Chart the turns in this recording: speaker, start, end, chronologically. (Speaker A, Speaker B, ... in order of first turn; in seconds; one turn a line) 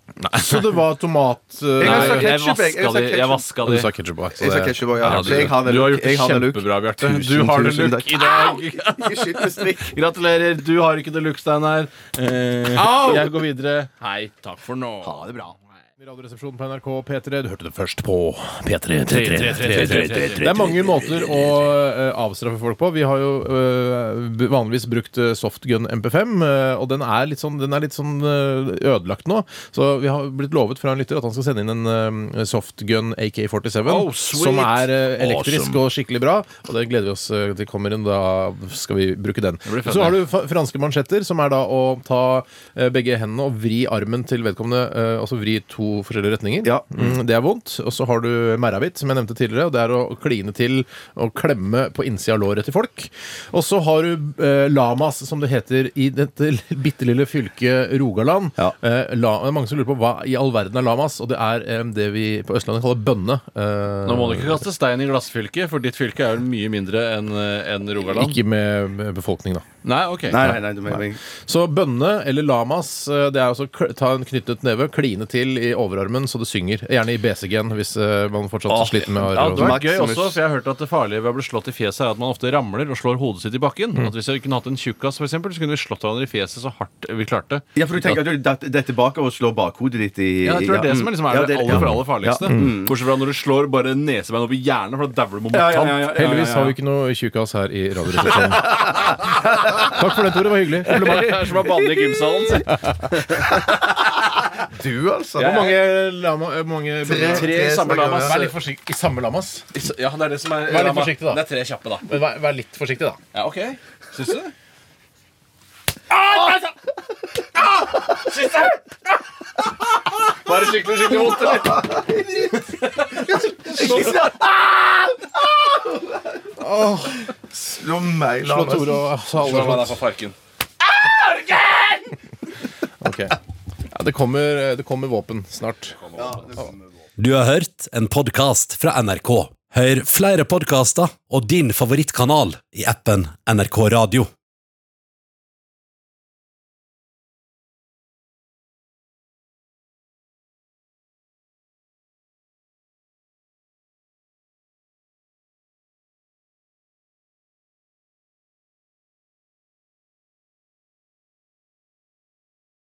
Speaker A: 0.2-0.8
Speaker B: 0.3-2.3
Speaker C: 1.8-3.5
Speaker A: 1.8-3.9
Speaker B: 3.6-5.5
Speaker C: 4.4-9.9
Speaker A: 5.0-15.2
Speaker B: 12.7-13.4
Speaker C: 15.0-15.5
Speaker B: 16.0-64.6
Speaker A: 19.1-20.5
Speaker C: 19.8-21.2
Speaker A: 33.9-35.6
Speaker C: 35.2-35.8
Speaker A: 39.7-40.2
Speaker C: 46.6-47.1
Speaker A: 64.1-68.3
Speaker B: 68.1-69.6
Speaker A: 69.8-70.6
Speaker C: 70.3-71.2
Speaker B: 70.9-79.8
Speaker A: 78.7-88.2
Speaker C: 79.2-80.4
Speaker C: 87.8-92.9
Speaker A: 90.4-96.8
Speaker B: 92.5-92.8
Speaker C: 95.5-96.3
Speaker B: 96.1-98.8
Speaker A: 98.7-99.9
Speaker B: 99.8-101.5
Speaker A: 100.9-103.8
Speaker C: 104.7-105.7
Speaker A: 105.4-105.7
Speaker B: 105.4-109.6
Speaker C: 107.0-108.5
Speaker A: 107.2-108.5
Speaker A: 109.7-112.1
Speaker B: 110.6-111.4
Speaker B: 112.0-113.2
Speaker A: 113.3-114.5
Speaker A: 118.2-118.8
Speaker A: 120.3-124.3
Speaker C: 121.5-122.5
Speaker C: 123.6-126.4
Speaker B: 126.6-127.2
Speaker C: 127.5-129.1
Speaker B: 128.4-130.0
Speaker A: 129.4-130.4
Speaker A: 131.4-131.9
Speaker B: 133.0-133.4
Speaker B: 133.9-136.0
Speaker C: 136.1-136.7
Speaker D: 137.2-144.3